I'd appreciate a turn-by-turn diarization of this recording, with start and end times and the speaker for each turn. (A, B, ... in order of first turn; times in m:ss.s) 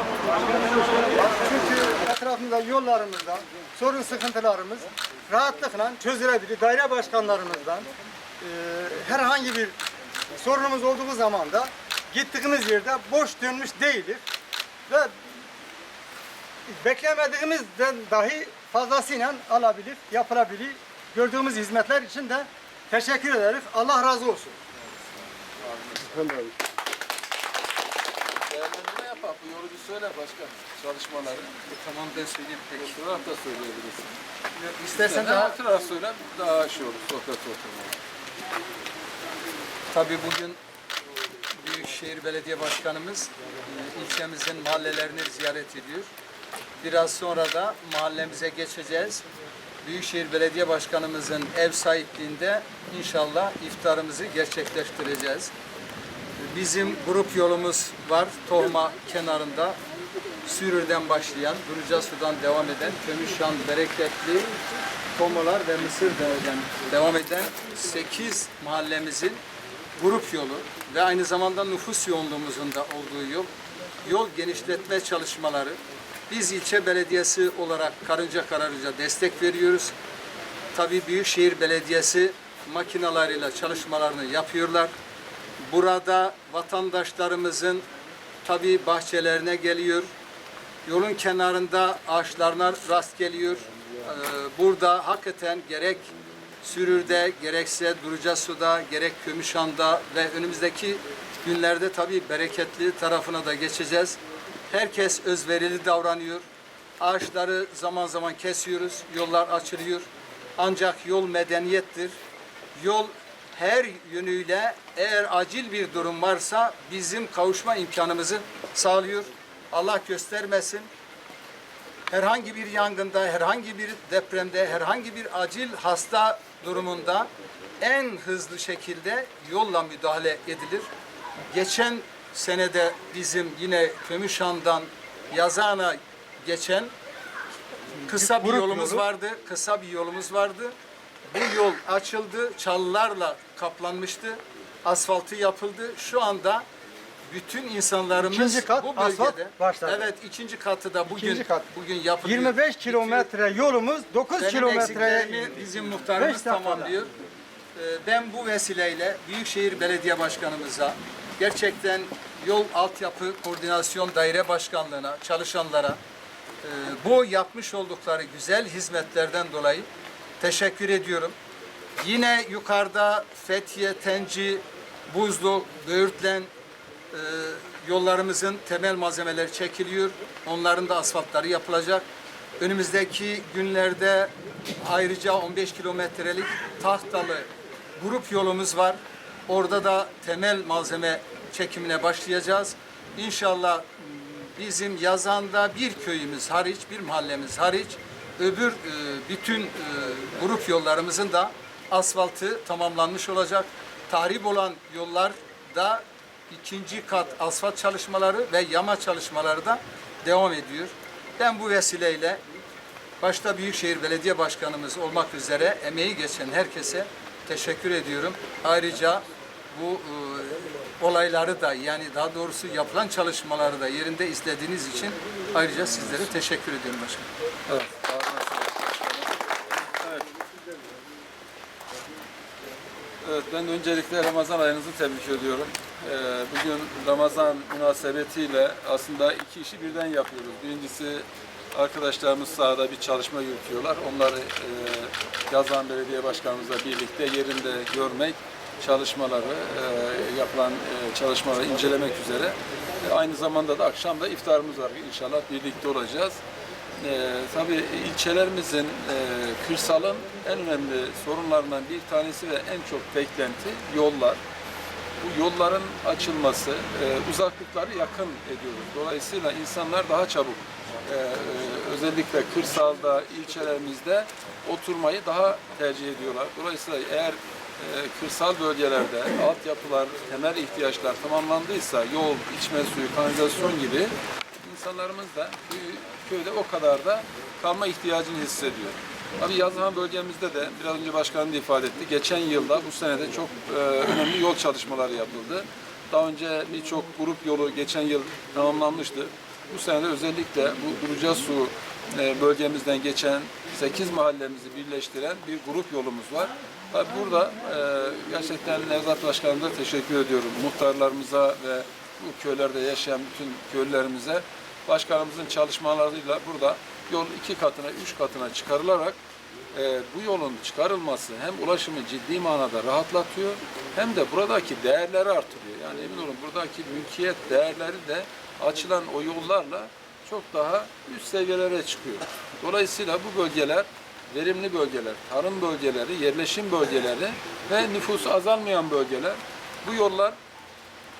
0:00.5-0:07.9 A
0:08.4-0:09.8 A
0:10.3-0:14.2 A
0:16.7-0:24.6 A
0:25.6-0:26.3 B
0:28.5-0:31.6 B
0:31.7-0:33.0 C
0:32.8-0:34.2 B
0:34.6-0:35.6 C
0:34.9-0:38.0 B
0:39.9-0:40.6 C
0:41.6-0:46.1 C
0:46.8-0:49.2 C
0:49.8-0:55.5 C
0:56.4-0:59.8 C
1:00.4-1:04.6 C
1:05.2-1:09.4 C
1:10.0-1:13.5 C
1:14.0-1:15.8 C
1:16.3-1:20.0 C
1:20.7-1:24.9 C
1:25.7-1:27.9 C
1:28.4-1:30.1 C
1:30.9-1:44.2 C
1:44.7-1:46.4 C
1:47.0-1:52.2 C
1:52.8-2:00.9 C
2:02.1-2:10.9 C
2:11.5-2:16.9 C
2:18.1-2:20.8 C
2:18.1-2:19.0 A
2:21.3-2:26.7 C
2:27.3-2:33.3 C
2:28.2-2:30.1 A
2:31.1-2:31.6 A
2:32.2-2:35.6 A
2:34.4-2:37.1 C
2:36.2-2:36.9 A
2:37.8-2:46.0 C
2:46.6-2:49.9 C
2:50.4-2:51.4 C
2:52.0-2:56.5 C
2:57.1-3:02.1 C
3:02.6-3:32.4 C
3:33.2-3:47.3 C
3:47.7-3:49.3 B
3:53.2-4:16.4 B
4:17.0-4:24.4 B
4:25.2-5:19.2 B
5:19.7-5:40.4 B